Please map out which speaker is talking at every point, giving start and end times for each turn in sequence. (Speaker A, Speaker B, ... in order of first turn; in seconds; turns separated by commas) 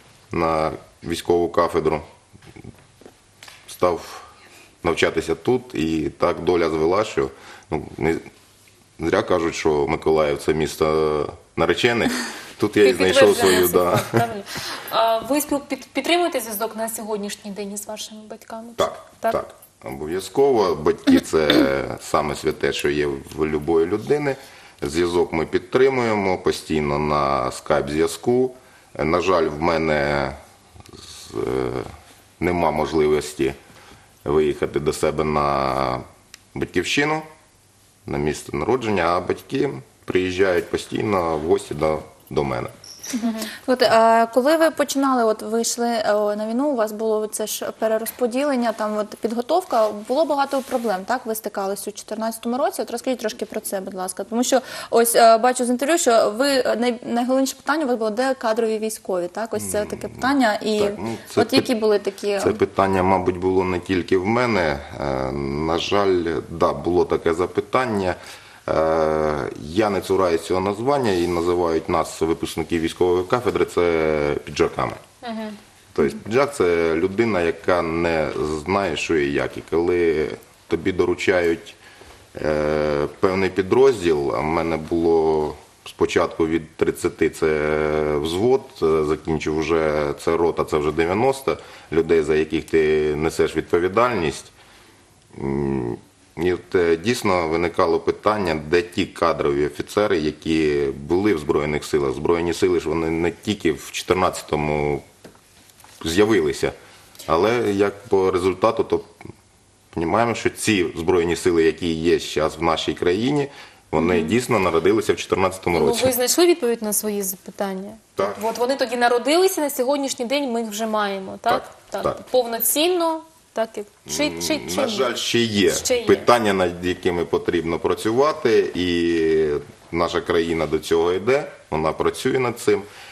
Speaker A: 0.3-2.0, Speaker A: 3.7-4.3, Speaker A: 4.8-8.2, Speaker A: 9.0-14.2, Speaker B: 12.8-19.4, Speaker A: 18.8-30.4, Speaker A: 31.0-33.6, Speaker A: 34.2-37.3, Speaker A: 38.0-42.7, Speaker C: 43.1-62.6, Speaker A: 59.5-61.7, Speaker A: 62.4-75.0, Speaker B: 75.2-75.6, Speaker A: 75.9-81.8, Speaker A: 82.3-94.5, Speaker A: 95.3-105.0, Speaker A: 106.0-106.7, Speaker A: 107.2-109.1, Speaker A: 109.9-116.1, Speaker B: 114.0-114.3, Speaker B: 115.7-125.1, Speaker A: 121.5-122.2, Speaker A: 124.1-132.9, Speaker B: 125.7-126.3